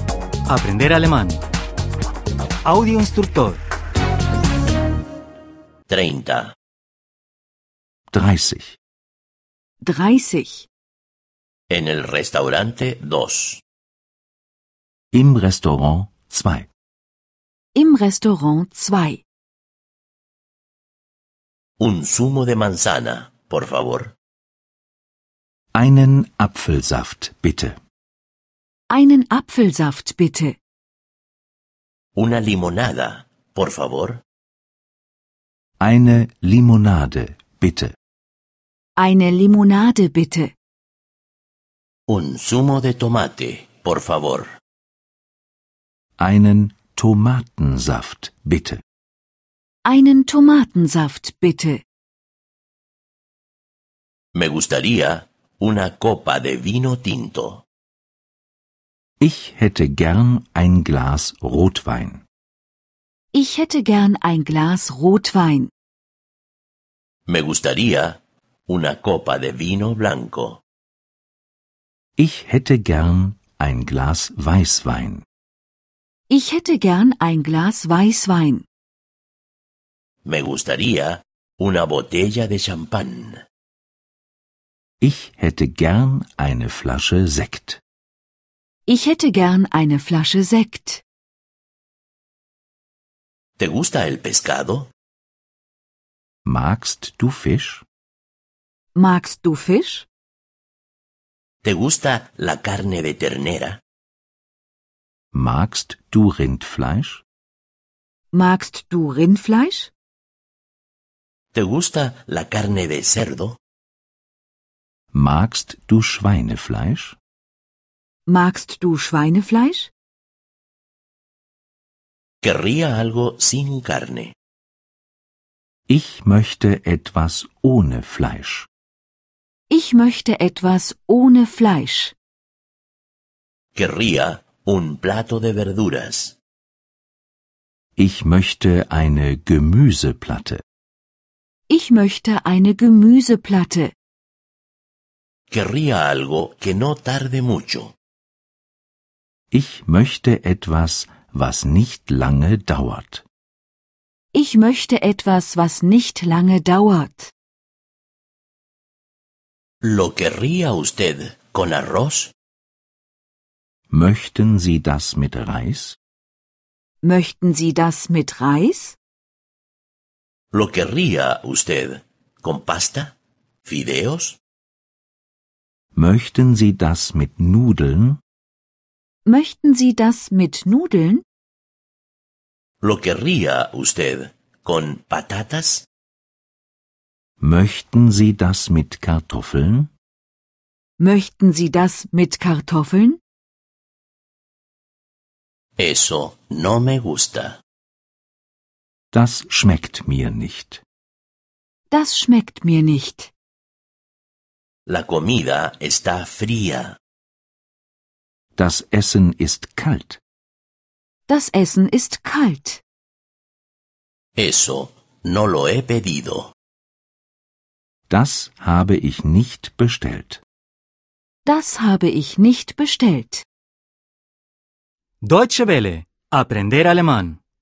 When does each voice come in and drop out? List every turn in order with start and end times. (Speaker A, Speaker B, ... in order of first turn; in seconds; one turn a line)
Speaker A: 0.5-1.4
Speaker A: 2.6-3.6
Speaker B: 5.9-6.5
Speaker C: 8.1-8.8
Speaker D: 9.8-10.7
Speaker B: 11.7-13.6
Speaker C: 15.1-16.7
Speaker D: 17.7-19.2
Speaker B: 21.8-24.1
Speaker C: 25.7-27.8
Speaker D: 28.9-30.6
Speaker B: 32.2-34.2
Speaker C: 35.8-37.9
Speaker D: 39.0-40.5
Speaker B: 42.1-44.5
Speaker C: 46.2-48.8
Speaker D: 49.9-51.8
Speaker B: 54.4-57.6
Speaker C: 59.2-62.2
Speaker D: 63.3-65.7
Speaker B: 67.3-70.6
Speaker C: 72.2-75.2
Speaker D: 76.3-78.7
Speaker B: 80.2-83.4
Speaker C: 85.0-87.8
Speaker D: 88.9-91.0
Speaker B: 93.6-94.9
Speaker C: 96.5-97.8
Speaker D: 99.0-100.1
Speaker B: 101.6-103.8
Speaker C: 105.3-107.2
Speaker D: 108.3-109.9
Speaker B: 111.5-113.6
Speaker C: 115.1-117.2
Speaker D: 118.3-119.9
Speaker B: 122.4-124.3
Speaker C: 125.9-128.7
Speaker D: 129.7-132.2
Speaker B: 133.8-136.4
Speaker C: 138.0-140.6
Speaker D: 141.7-143.9
Speaker B: 145.5-147.9
Speaker C: 149.5-153.2
Speaker D: 154.3-157.3
Speaker B: 159.8-162.3
Speaker C: 163.9-166.0
Speaker D: 167.0-169.0
Speaker B: 170.5-173.1
Speaker B: 173.7-174.4
Speaker C: 175.9-178.2
Speaker D: 179.2-181.2
Speaker B: 182.8-185.9
Speaker C: 187.4-189.9
Speaker D: 191.0-193.2
Speaker B: 195.8-197.6
Speaker C: 199.1-200.8
Speaker D: 201.9-203.3
Speaker B: 204.9-207.0
Speaker C: 208.6-210.2
Speaker D: 211.3-212.8
Speaker B: 214.4-216.5
Speaker C: 218.1-220.4
Speaker D: 221.4-223.5
Speaker A: 225.2-227.4